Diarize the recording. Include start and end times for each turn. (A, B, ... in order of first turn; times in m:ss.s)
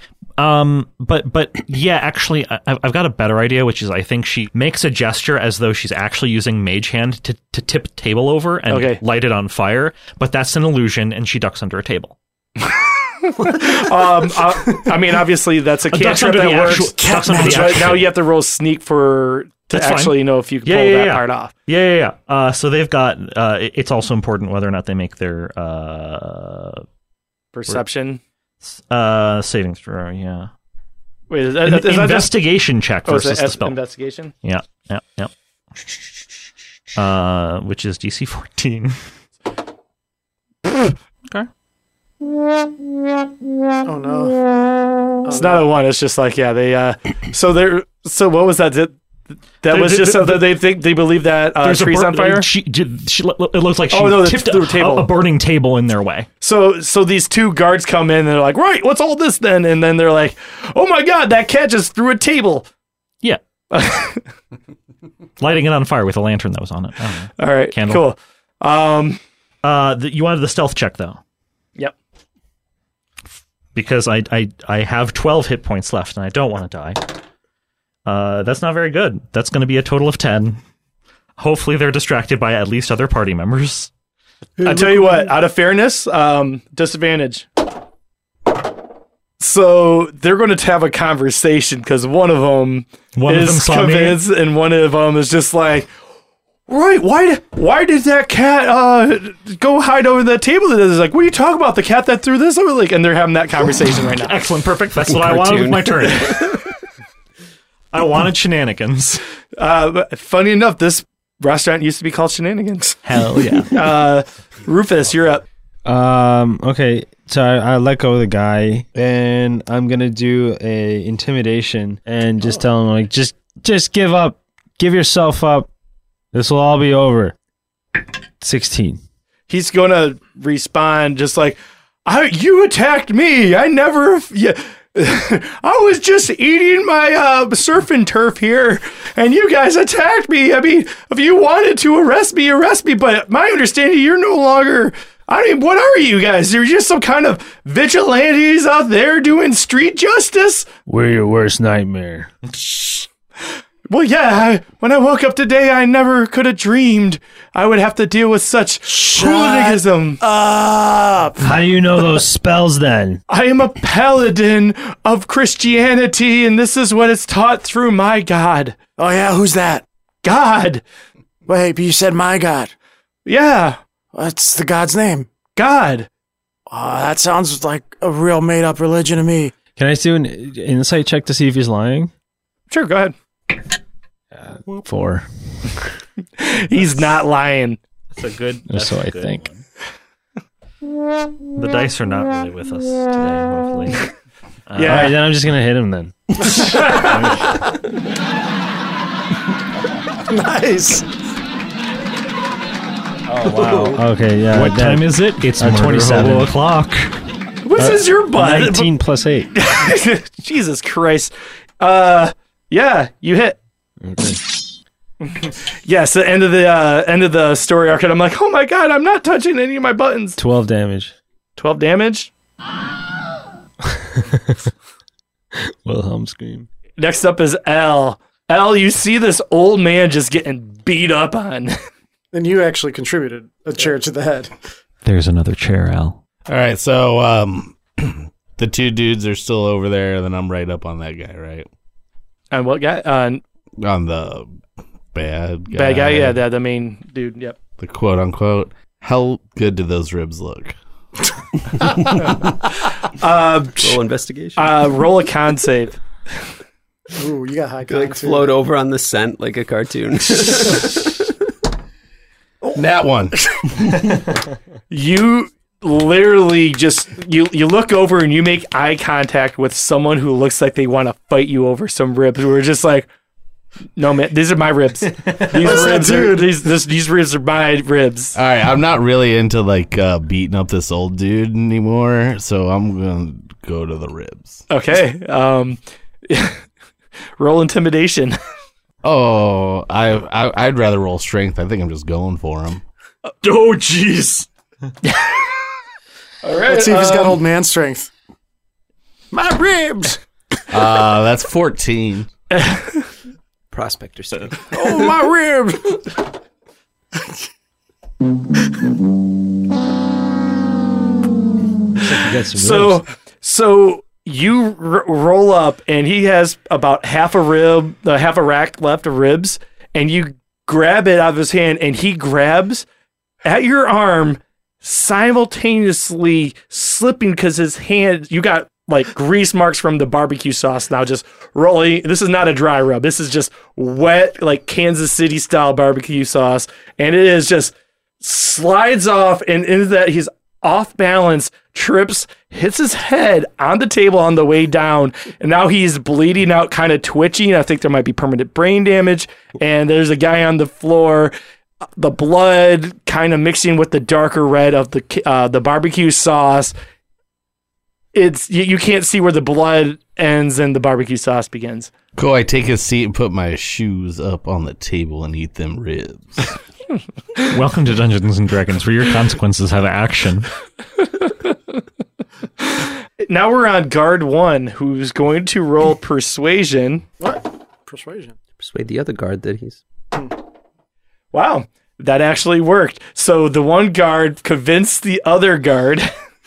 0:00.4-0:12.2 A
0:08.7-0:09.0 B
0:13.2-0:21.5 B
0:15.9-0:18.1 A
0:17.0-0:18.0 C
0:19.7-0:26.8 A
0:27.5-0:28.2 B
0:28.6-0:30.5 A
0:31.3-0:32.4 B
0:31.6-0:33.8 A
0:33.1-0:34.3 B
0:34.4-0:35.3 A
0:37.0-0:39.0 A
0:43.8-0:44.4 C
0:45.2-0:45.7 C
0:45.3-0:49.0 B
0:49.6-0:52.5 B
0:49.7-0:50.6 A
0:51.6-0:56.3 A
0:53.9-0:55.1 B
0:56.4-1:02.7 B
1:03.7-1:04.2 B
1:05.4-1:08.0 A
1:07.4-1:09.2 B
1:09.6-1:11.2 A
1:13.8-1:17.2 A
1:18.1-1:20.6 A
1:21.4-1:23.9 A
1:24.6-1:25.3 C
1:24.6-1:27.5 B
1:29.4-1:35.9 B
1:33.2-1:34.2 A
1:36.7-1:44.3 B
1:44.2-1:46.6 A
1:45.0-1:46.6 D
1:47.9-1:49.2 A
1:49.6-1:53.0 B
1:53.0-1:53.8 A
1:53.7-1:55.4 B
1:55.8-2:05.7 E
2:06.3-2:07.4 E
2:08.4-2:09.0 E
2:09.5-2:30.7 B
2:30.9-2:32.3 E
2:32.7-2:33.0 B
2:33.9-2:40.2 B
2:38.9-2:41.6 C
2:41.4-2:43.2 E
2:43.3-2:48.8 B
2:49.0-2:49.8 C
2:50.2-2:50.8 B
2:51.5-2:52.7 C
2:53.3-2:53.8 B
2:54.1-2:55.3 C
2:55.6-2:56.1 B
2:56.7-2:59.5 C
2:59.8-3:02.1 E
3:02.7-3:03.1 B
3:04.3-3:05.3 E
3:06.4-3:07.8 B
3:08.2-3:09.6 A
3:08.7-3:09.4 E
3:11.6-3:14.1 A
3:14.7-3:15.2 A
3:14.8-3:15.1 B
3:14.8-3:17.6 E
3:17.1-3:17.5 A
3:20.3-3:21.0 C
3:23.3-3:26.5 E
3:23.4-3:24.0 D
3:24.5-3:27.1 A
3:27.6-3:28.9 B
3:27.8-3:29.5 E
3:29.6-3:33.6 B
3:34.0-3:34.4 E
3:35.2-3:40.4 B
3:40.4-3:41.1 E
3:41.6-3:42.3 B
3:43.9-3:44.7 E
3:45.6-3:46.7 E
3:47.0-3:51.8 B
3:52.3-3:54.5 C
3:55.0-3:56.2 A
3:56.5-4:01.7 F
4:02.5-4:03.4 B
4:03.8-4:04.5 F
4:05.1-4:06.4 F
4:05.7-4:07.6 B
4:07.8-4:10.8 F
4:11.8-4:12.2 D
4:13.2-4:14.0 B
4:13.8-4:14.9 D
4:14.6-4:16.0 B
4:17.2-4:18.6 C
4:17.9-4:21.3 D
4:22.8-4:23.4 F
4:24.9-4:33.1 B
4:34.0-4:38.4 B
4:35.5-4:36.6 C
4:38.4-4:44.6 F
4:44.7-4:46.6 B
4:47.4-4:48.4 B
4:49.0-4:52.8 F
4:53.4-4:54.5 A
4:55.0-4:55.4 B
4:56.4-4:57.4 B
4:56.7-4:58.1 C
4:59.3-5:00.2 C
5:00.7-5:02.3 F
5:02.5-5:03.0 B
5:03.7-5:04.7 D
5:04.7-5:06.1 C
5:12.0-5:13.0 E
5:12.5-5:22.9 B
5:23.4-5:51.3 B
5:52.0-5:56.7 B
5:58.1-6:01.9 B
6:02.2-6:06.5 F
6:07.4-6:10.5 A
6:12.6-6:17.0 B
6:17.2-6:18.4 C
6:18.6-6:19.8 D
6:21.3-6:26.1 B